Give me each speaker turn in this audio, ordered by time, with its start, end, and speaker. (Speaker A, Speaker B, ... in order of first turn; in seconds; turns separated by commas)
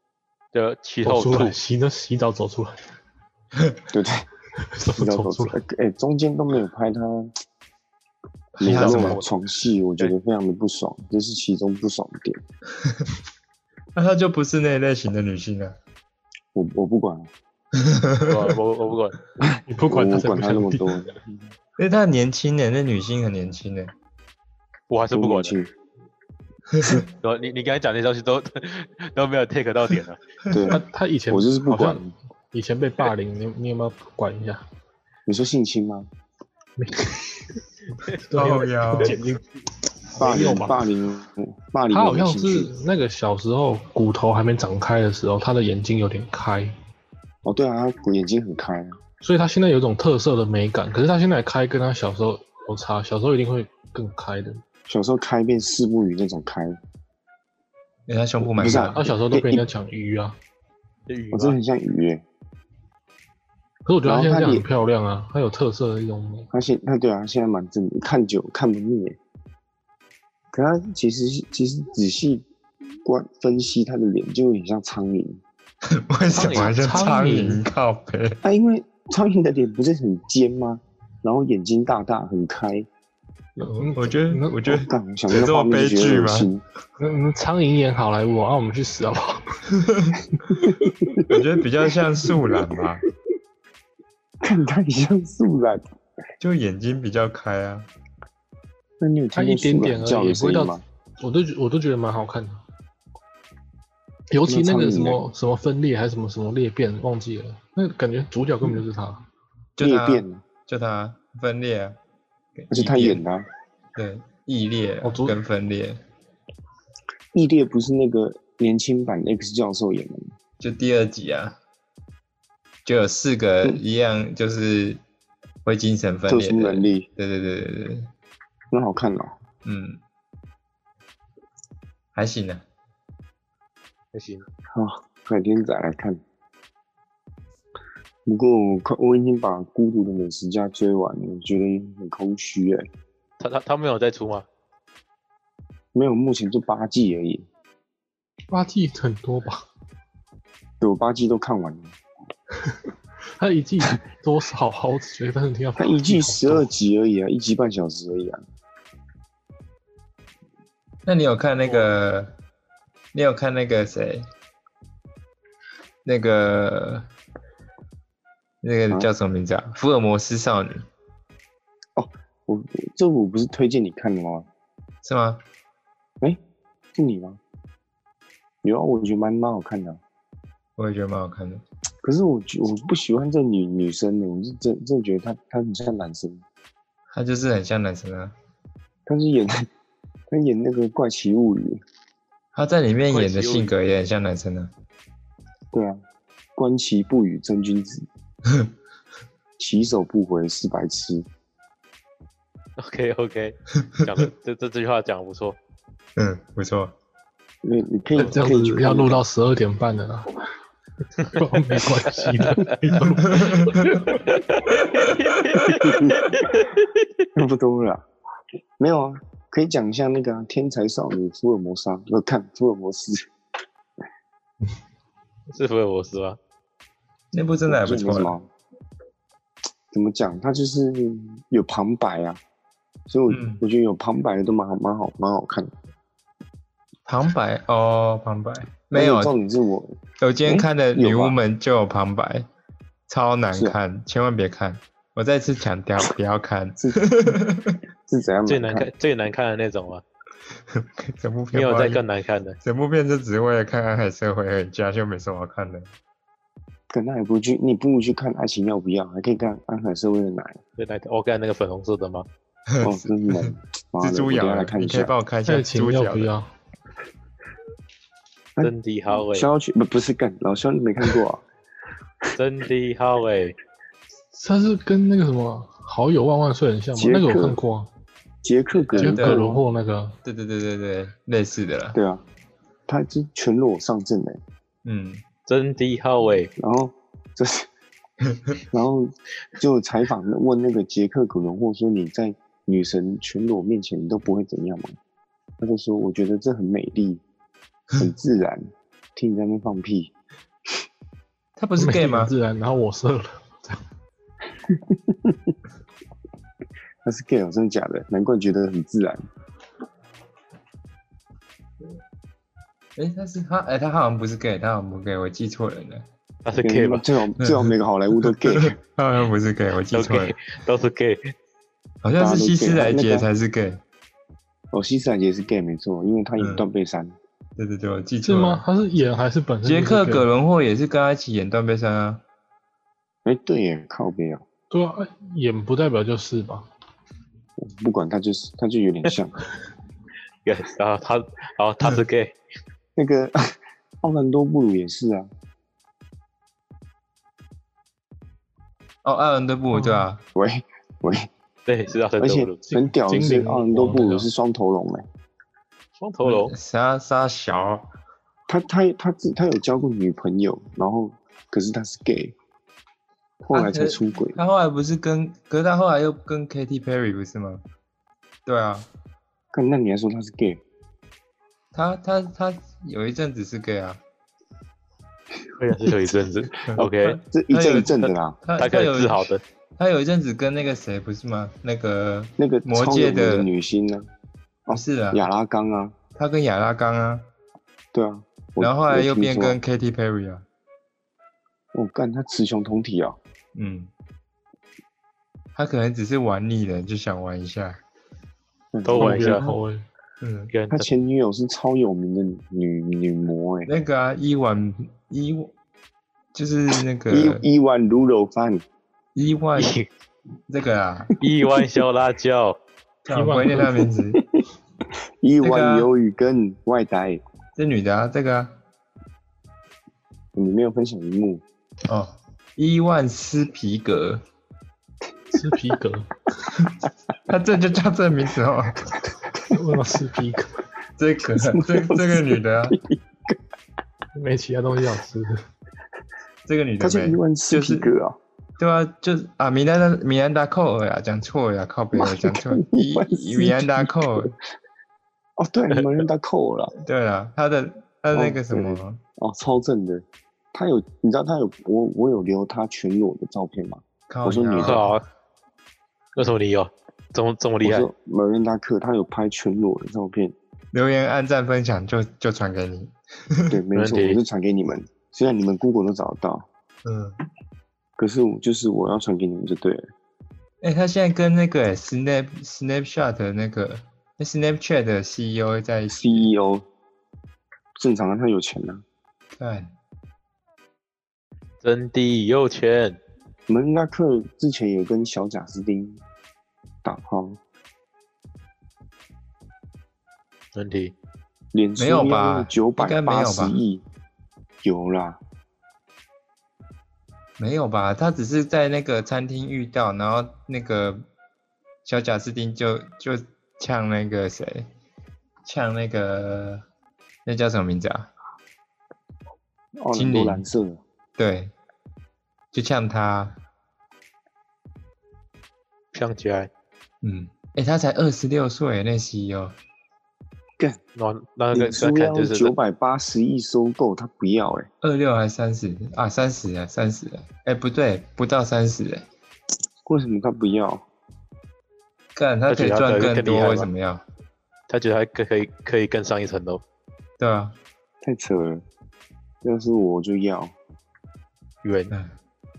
Speaker A: 0.5-1.6, Speaker B: 1.0-2.8, Speaker C: 3.9-4.3, Speaker B: 4.6-5.6, Speaker C: 5.0-7.3, Speaker D: 8.6-9.2, Speaker C: 8.6-12.4, Speaker A: 8.6-9.3, Speaker D: 12.8-13.0, Speaker D: 13.9-15.8, Speaker C: 16.5-17.3, Speaker D: 17.8-18.6, Speaker A: 18.3-19.2, Speaker C: 19.4-21.2, Speaker B: 19.7-21.1, Speaker D: 21.8-23.9, Speaker A: 24.9-25.6, Speaker C: 25.1-25.7, Speaker D: 26.7-27.1, Speaker A: 27.2-30.2, Speaker D: 30.5-30.8, Speaker C: 30.5-32.1, Speaker B: 30.7-34.6, Speaker C: 35.3-36.1, Speaker B: 36.8-37.5, Speaker B: 38.0-39.5, Speaker D: 38.3-39.2, Speaker B: 40.1-40.8, Speaker C: 40.2-42.7, Speaker B: 41.9-46.7, Speaker C: 47.4-49.0, Speaker B: 49.2-54.6, Speaker C: 54.9-56.8, Speaker D: 58.1-59.0, Speaker C: 58.4-59.6, Speaker B: 58.9-60.4, Speaker A: 61.1-61.6, Speaker C: 61.3-62.2, Speaker B: 63.9-66.5, Speaker C: 64.0-64.7, Speaker C: 66.5-69.2, Speaker C: 70.5-72.5, Speaker C: 73.0-75.4, Speaker D: 75.9-78.4, Speaker A: 76.3-76.8, Speaker B: 76.4-77.6, Speaker C: 78.4-82.9, Speaker B: 83.6-84.6, Speaker D: 83.6-86.5, Speaker C: 84.7-86.6, Speaker B: 87.0-89.4, Speaker D: 89.7-90.3, Speaker C: 90.5-91.2, Speaker D: 91.3-93.0, Speaker C: 94.4-95.8, Speaker D: 96.4-97.9, Speaker C: 99.0-100.8, Speaker B: 99.3-102.6, Speaker B: 104.3-109.2, Speaker C: 104.5-105.2, Speaker D: 109.8-112.0, Speaker C: 109.8-110.4, Speaker D: 112.6-113.2, Speaker C: 112.7-113.4, Speaker D: 114.0-116.0, Speaker B: 115.0-115.4, Speaker C: 117.3-120.3, Speaker D: 120.6-121.6, Speaker D: 122.8-125.0, Speaker D: 125.6-128.1, Speaker C: 126.3-127.1, Speaker C: 128.7-129.4, Speaker D: 129.6-130.0, Speaker D: 132.2-132.6, Speaker A: 134.1-134.5, Speaker C: 134.7-136.2, Speaker C: 138.3-142.9, Speaker A: 143.4-144.5, Speaker C: 145.9-147.5, Speaker B: 148.5-149.7, Speaker C: 150.8-152.0, Speaker B: 153.4-156.7, Speaker C: 155.8-158.4, Speaker D: 161.1-162.3, Speaker A: 161.7-161.9, Speaker D: 163.1-164.3, Speaker D: 166.1-167.1, Speaker D: 168.6-170.9, Speaker C: 172.0-174.5, Speaker D: 175.0-175.4, Speaker C: 176.9-177.4, Speaker C: 178.6-180.0, Speaker D: 180.8-181.6, Speaker C: 182.0-186.4, Speaker D: 187.1-188.3, Speaker C: 189.1-189.7, Speaker C: 190.3-191.8, Speaker D: 192.5-194.7, Speaker A: 193.1-193.7, Speaker C: 195.7-196.0, Speaker C: 196.6-198.1, Speaker D: 198.5-198.7, Speaker C: 199.6-201.3, Speaker A: 202.8-205.6, Speaker D: 206.2-206.9, Speaker C: 207.6-209.2, Speaker B: 208.2-210.4, Speaker B: 211.3-214.2, Speaker A: 212.4-212.7, Speaker D: 213.2-214.1, Speaker A: 214.3-217.1, Speaker D: 214.7-215.4, Speaker C: 215.6-216.4, Speaker C: 217.3-218.1, Speaker C: 218.8-223.3, Speaker A: 225.5-226.4, Speaker D: 227.3-228.3, Speaker C: 227.7-228.5, Speaker C: 229.9-232.4, Speaker C: 233.1-235.7, Speaker D: 233.3-233.6, Speaker D: 237.1-239.3, Speaker C: 238.9-241.4, Speaker D: 240.2-242.5, Speaker D: 243.1-247.8, Speaker C: 243.5-243.8, Speaker C: 246.8-247.1, Speaker C: 248.1-248.9, Speaker A: 248.5-250.0, Speaker D: 250.7-252.0, Speaker A: 251.5-252.6, Speaker D: 252.6-255.9, Speaker C: 256.9-260.6, Speaker A: 260.8-262.3, Speaker D: 262.7-266.3, Speaker C: 262.8-265.1, Speaker B: 265.5-266.5, Speaker A: 268.6-269.5, Speaker C: 269.3-271.4, Speaker A: 272.4-273.6, Speaker B: 274.3-277.9, Speaker C: 276.9-277.6, Speaker C: 278.4-279.6, Speaker D: 278.9-279.6, Speaker B: 279.0-280.2, Speaker D: 280.2-282.0, Speaker C: 281.9-282.2, Speaker C: 282.9-284.4, Speaker D: 284.8-285.2, Speaker A: 285.5-286.5, Speaker C: 286.6-287.7, Speaker C: 288.7-295.0, Speaker C: 295.6-297.2, Speaker C: 298.0-300.1, Speaker D: 301.6-302.3, Speaker B: 301.8-303.8, Speaker C: 304.7-305.6, Speaker C: 307.0-309.2, Speaker D: 313.0-316.1, Speaker A: 316.4-317.0, Speaker C: 316.6-318.8, Speaker D: 317.4-320.4, Speaker A: 319.9-321.3, Speaker D: 322.0-323.8, Speaker C: 322.2-323.3, Speaker C: 324.7-327.2, Speaker D: 326.4-326.6, Speaker D: 327.6-328.6, Speaker B: 328.2-330.3, Speaker D: 329.6-332.2, Speaker C: 333.2-334.4, Speaker B: 334.7-336.7, Speaker C: 337.6-339.4, Speaker A: 340.4-342.4, Speaker C: 343.0-345.3, Speaker D: 349.0-350.2, Speaker C: 350.4-351.3, Speaker A: 351.7-352.6, Speaker C: 352.2-355.1, Speaker B: 352.7-354.3, Speaker A: 356.0-356.5, Speaker D: 356.2-357.9, Speaker C: 358.5-362.3, Speaker C: 363.4-364.4, Speaker D: 363.5-367.6, Speaker D: 368.5-368.9, Speaker C: 369.5-370.6, Speaker D: 371.7-374.0, Speaker A: 375.6-377.2, Speaker D: 376.6-383.5, Speaker C: 376.8-378.4, Speaker A: 378.6-379.4, Speaker C: 382.4-384.1, Speaker C: 384.7-386.0, Speaker D: 384.7-385.3, Speaker D: 386.2-387.3, Speaker C: 387.9-389.6, Speaker D: 388.6-390.4, Speaker C: 391.7-393.2, Speaker D: 393.6-393.9, Speaker D: 395.6-397.8, Speaker C: 398.7-399.4, Speaker A: 398.9-399.5, Speaker B: 398.9-399.8, Speaker D: 400.2-400.5, Speaker A: 400.5-400.9, Speaker C: 400.7-403.7, Speaker D: 403.7-405.5, Speaker D: 406.3-407.4, Speaker C: 407.1-408.6, Speaker D: 409.1-409.8, Speaker A: 409.6-409.9, Speaker D: 410.5-411.2, Speaker A: 411.2-412.6, Speaker D: 413.1-414.2, Speaker B: 413.1-413.8, Speaker C: 415.2-417.2, Speaker D: 415.4-415.9, Speaker D: 417.6-418.6, Speaker C: 420.4-421.4, Speaker D: 421.9-424.2, Speaker B: 425.3-426.1, Speaker D: 427.3-429.1, Speaker B: 429.5-430.6, Speaker D: 431.0-432.8, Speaker C: 431.3-433.4, Speaker B: 434.1-435.4, Speaker D: 436.5-437.9, Speaker C: 436.8-438.2, Speaker D: 438.6-444.3, Speaker C: 441.9-444.3, Speaker C: 445.4-446.7, Speaker D: 446.8-449.0, Speaker C: 448.1-454.9, Speaker D: 454.1-454.9, Speaker A: 454.6-455.0, Speaker A: 456.2-457.9, Speaker C: 457.6-460.4, Speaker D: 460.7-463.6, Speaker C: 463.5-466.5, Speaker A: 463.8-464.2, Speaker D: 466.8-467.2, Speaker C: 468.0-469.8, Speaker D: 470.6-476.3, Speaker C: 475.9-476.7, Speaker C: 477.8-478.8, Speaker D: 479.4-479.7, Speaker A: 481.6-483.0, Speaker C: 483.5-486.0, Speaker C: 486.8-487.4, Speaker A: 490.6-490.9, Speaker C: 491.5-493.8, Speaker D: 491.8-493.6, Speaker C: 494.6-495.2, Speaker D: 497.4-501.1, Speaker D: 501.9-504.7, Speaker D: 505.4-506.6, Speaker D: 507.2-508.1, Speaker C: 509.8-510.8, Speaker D: 509.9-510.4, Speaker D: 511.2-511.5, Speaker D: 512.5-513.4, Speaker A: 515.9-516.5, Speaker D: 517.0-519.6, Speaker A: 521.0-522.5, Speaker C: 521.5-524.7, Speaker D: 524.8-529.1, Speaker C: 529.9-530.9, Speaker D: 532.1-534.0, Speaker A: 532.5-533.7, Speaker A: 534.7-536.6, Speaker D: 537.2-537.6, Speaker C: 538.0-538.6, Speaker C: 539.4-540.6, Speaker A: 541.6-541.9